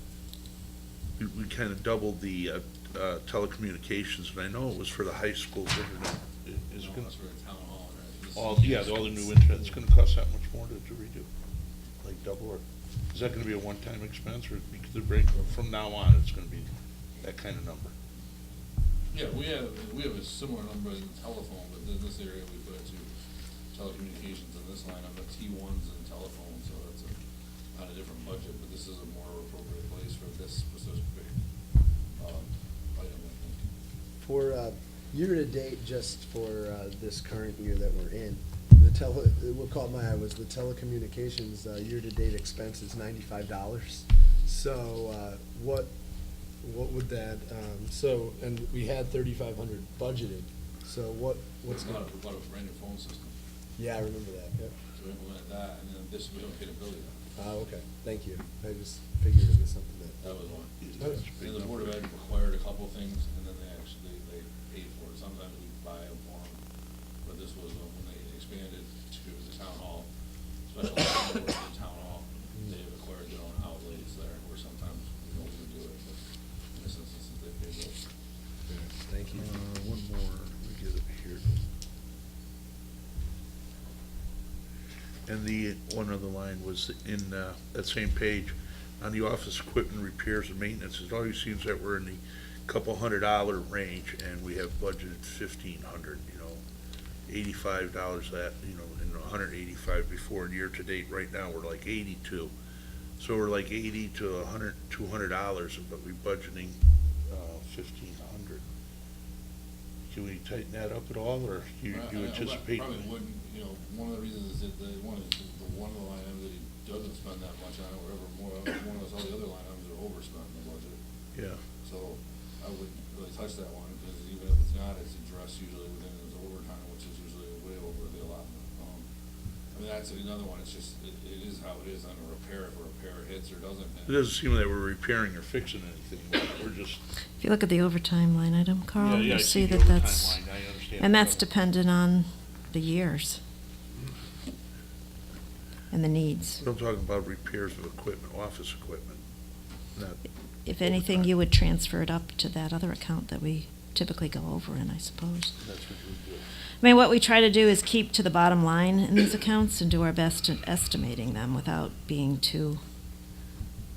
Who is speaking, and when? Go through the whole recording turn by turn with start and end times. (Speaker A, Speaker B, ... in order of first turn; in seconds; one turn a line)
Speaker A: 1.2-7.1
Speaker B: 6.8-9.7
Speaker A: 8.3-11.3
Speaker A: 12.0-16.7
Speaker A: 17.2-17.9
Speaker B: 19.1-23.1
Speaker B: 23.7-27.1
Speaker B: 27.7-31.4
Speaker B: 32.1-33.6
Speaker C: 34.2-45.9
Speaker C: 46.6-52.0
Speaker B: 51.7-53.3
Speaker C: 53.8-54.7
Speaker B: 54.9-57.2
Speaker C: 57.4-60.4
Speaker B: 60.2-66.6
Speaker A: 60.8-62.1
Speaker C: 61.0-61.2
Speaker B: 67.2-70.1
Speaker B: 70.7-76.2
Speaker B: 76.7-78.0
Speaker C: 78.7-79.5
Speaker A: 79.3-81.6
Speaker A: 85.3-96.6
Speaker A: 97.3-102.5
Speaker A: 103.2-108.6
Speaker A: 110.1-113.0
Speaker B: 111.9-121.0
Speaker A: 121.3-121.6
Speaker B: 121.8-129.1
Speaker B: 129.7-134.2
Speaker A: 134.1-137.0
Speaker D: 137.4-143.4
Speaker A: 138.9-141.5
Speaker D: 145.9-146.6
Speaker A: 146.6-149.2
Speaker A: 149.9-150.2
Speaker D: 150.7-155.6
Speaker A: 150.8-151.3
Speaker A: 155.6-156.4
Speaker D: 156.8-162.8